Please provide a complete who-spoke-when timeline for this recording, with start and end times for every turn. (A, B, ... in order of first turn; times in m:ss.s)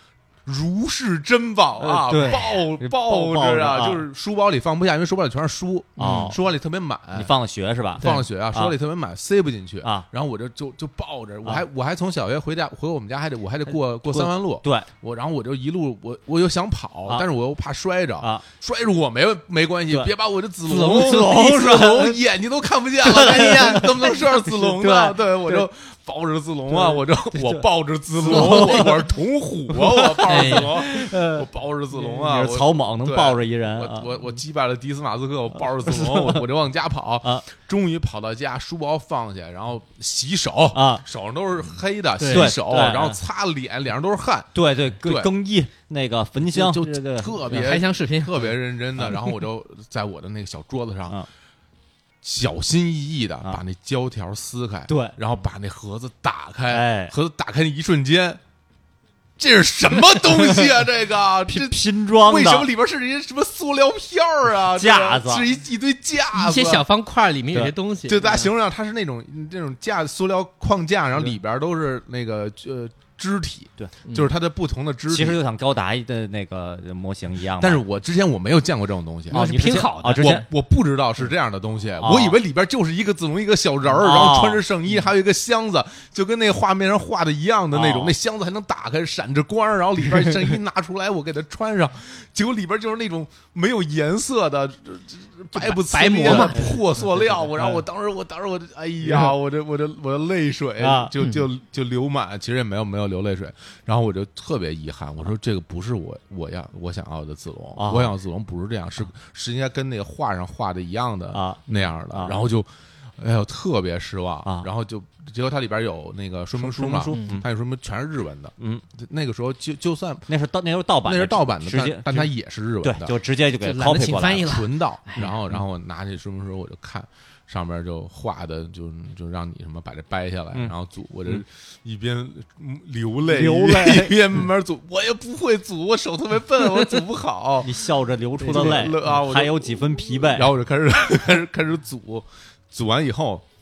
0:00.4-0:07.3 A
0:01.8-0:04.0 B
0:06.0-0:06.3 C
0:06.0-0:06.4 B
0:07.1-0:08.7 B
0:08.0-0:45.3 A
0:08.0-0:08.2 C
0:13.7-0:14.9 B
0:20.7-0:21.6 C
0:20.8-0:22.2 B
0:23.0-0:25.7 B
0:26.7-0:29.1 B
0:28.2-0:28.9 C
0:29.7-0:31.5 B
0:30.3-0:30.7 C
0:32.0-0:34.4 B
0:35.8-0:36.4 B
0:40.7-0:41.0 B
0:42.2-0:42.5 C
0:42.3-0:43.2 B
0:44.5-0:47.6 B
0:46.4-0:51.2 A
0:47.5-0:48.3 C
0:52.2-0:58.4 A
0:54.9-0:55.2 B
0:56.7-0:57.1 B
0:59.4-1:06.8 A
1:00.2-1:00.6 B
1:01.5-1:02.7 B
1:04.7-1:05.5 B
1:06.3-1:08.5 C
1:08.1-1:15.4 A
1:15.1-1:17.8 B
1:17.6-2:00.2 A
1:19.3-1:20.4 C
1:19.3-1:20.4 B
1:22.0-1:22.4 B
1:23.9-1:24.6 B
1:27.7-1:28.2 B
1:35.5-1:36.8 C
1:36.2-1:36.7 B
1:37.6-1:37.8 B
1:39.0-1:39.3 B
1:40.8-1:41.1 B
1:47.8-1:48.1 B
1:51.3-1:52.5 B
1:56.6-1:57.4 B
1:57.1-1:57.4 C
1:58.6-1:58.8 B
2:00.3-2:02.3 B
2:01.0-2:03.1 A
2:02.8-2:04.5 B
2:03.6-2:05.3 C
2:04.3-2:17.7 A
2:05.2-2:05.6 B
2:13.2-2:14.2 B
2:17.6-2:20.5 B
2:18.4-2:23.4 A
2:18.4-2:19.1 C